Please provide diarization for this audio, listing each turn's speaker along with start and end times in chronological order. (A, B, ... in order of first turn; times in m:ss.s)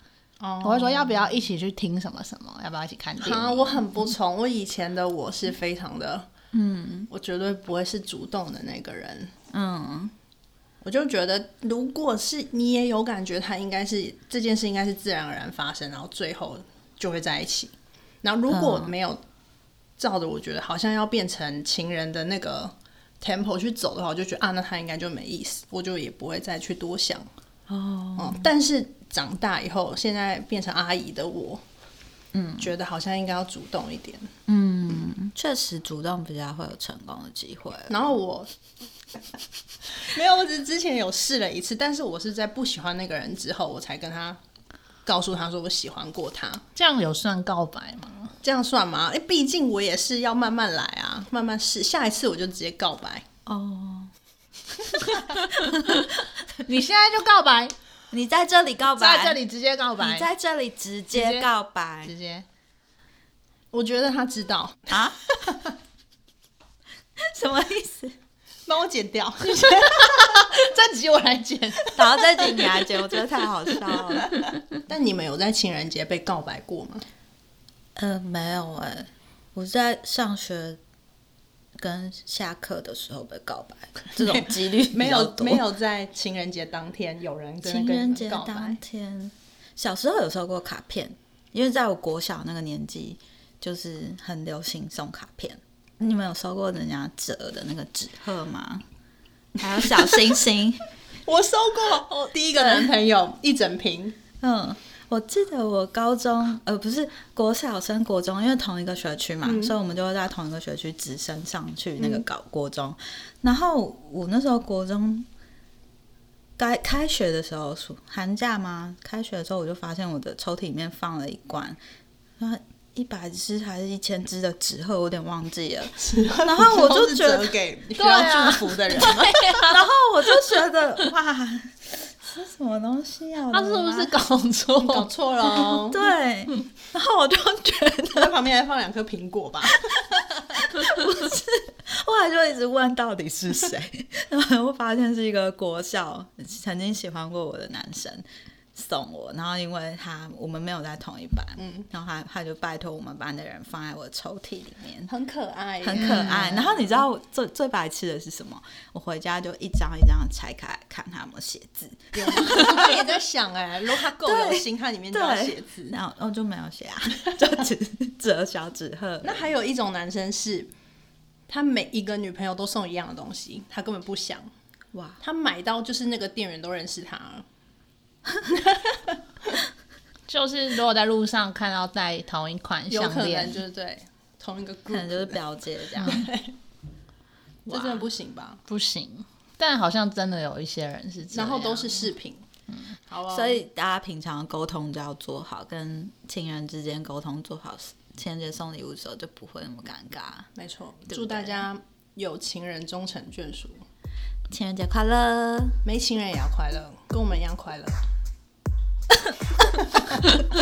0:00.4-0:01.4 A
0:00.6-0:03.8 B
0:03.2-0:06.3 A
0:06.5-0:07.1 C
0:07.1-0:09.3 A
0:09.5-0:10.1 C
0:10.8-0:19.2 A
0:18.5-0:18.9 C
0:20.0-0:27.3 A
0:27.7-0:28.5 C
0:28.2-0:31.6 A
0:32.3-0:32.7 C
0:32.6-0:34.3 A
0:34.5-0:38.0 C
0:37.9-0:38.5 A
0:39.9-0:44.4 A
0:45.0-0:46.6 A
0:46.8-0:48.3 B
0:48.4-0:53.2 A
0:53.5-0:54.1 C
0:54.9-0:56.3 C
0:56.6-0:57.7 B
0:58.1-0:59.4 C
0:59.0-1:00.3 B
1:00.0-1:02.1 C
1:01.1-1:01.5 B
1:02.0-1:02.4 B
1:03.7-1:05.7 A
1:04.9-1:05.2 C
1:07.2-1:08.2 C
1:08.7-1:10.5 A
1:09.6-1:12.0 B
1:12.0-1:14.6 C
1:14.9-1:17.1 A
1:18.0-1:20.8 C
1:21.8-1:25.6 C
1:24.1-1:28.8 A
1:27.6-1:38.8 C
1:39.6-1:40.8 C
1:39.8-1:40.2 A
1:41.3-1:44.2 A
1:42.5-1:42.9 C
1:44.4-1:55.3 C
1:49.4-1:49.8 A
1:52.0-1:52.2 A
1:56.6-2:01.8 C
2:02.4-2:07.5 C
2:06.0-2:09.4 A
2:08.0-2:09.9 B
2:09.0-2:14.1 C
2:13.5-2:15.1 B
2:14.8-2:16.0 A
2:15.5-2:18.4 C
2:18.1-2:20.3 A
2:19.8-2:35.1 C
2:31.6-2:31.9 A
2:35.1-2:37.0 A
2:35.8-2:43.0 C
2:42.1-2:46.0 A
2:44.0-2:49.4 C
2:49.2-2:50.7 A
2:51.5-2:54.5 A
2:54.9-2:55.2 C
2:55.2-2:57.4 A
2:58.5-2:59.2 A
3:00.3-3:03.6 B
3:02.9-3:05.4 A
3:04.9-3:06.2 C
3:06.0-3:06.5 A
3:06.0-3:06.3 B
3:07.7-3:08.6 A
3:07.7-3:08.1 C
3:08.7-3:12.1 B
3:11.3-3:12.5 A
3:13.1-3:13.6 A
3:13.3-3:20.5 C
3:20.6-3:23.8 A
3:21.1-3:21.6 C
3:24.5-3:25.8 C
3:25.8-3:28.0 A
3:29.7-3:30.2 A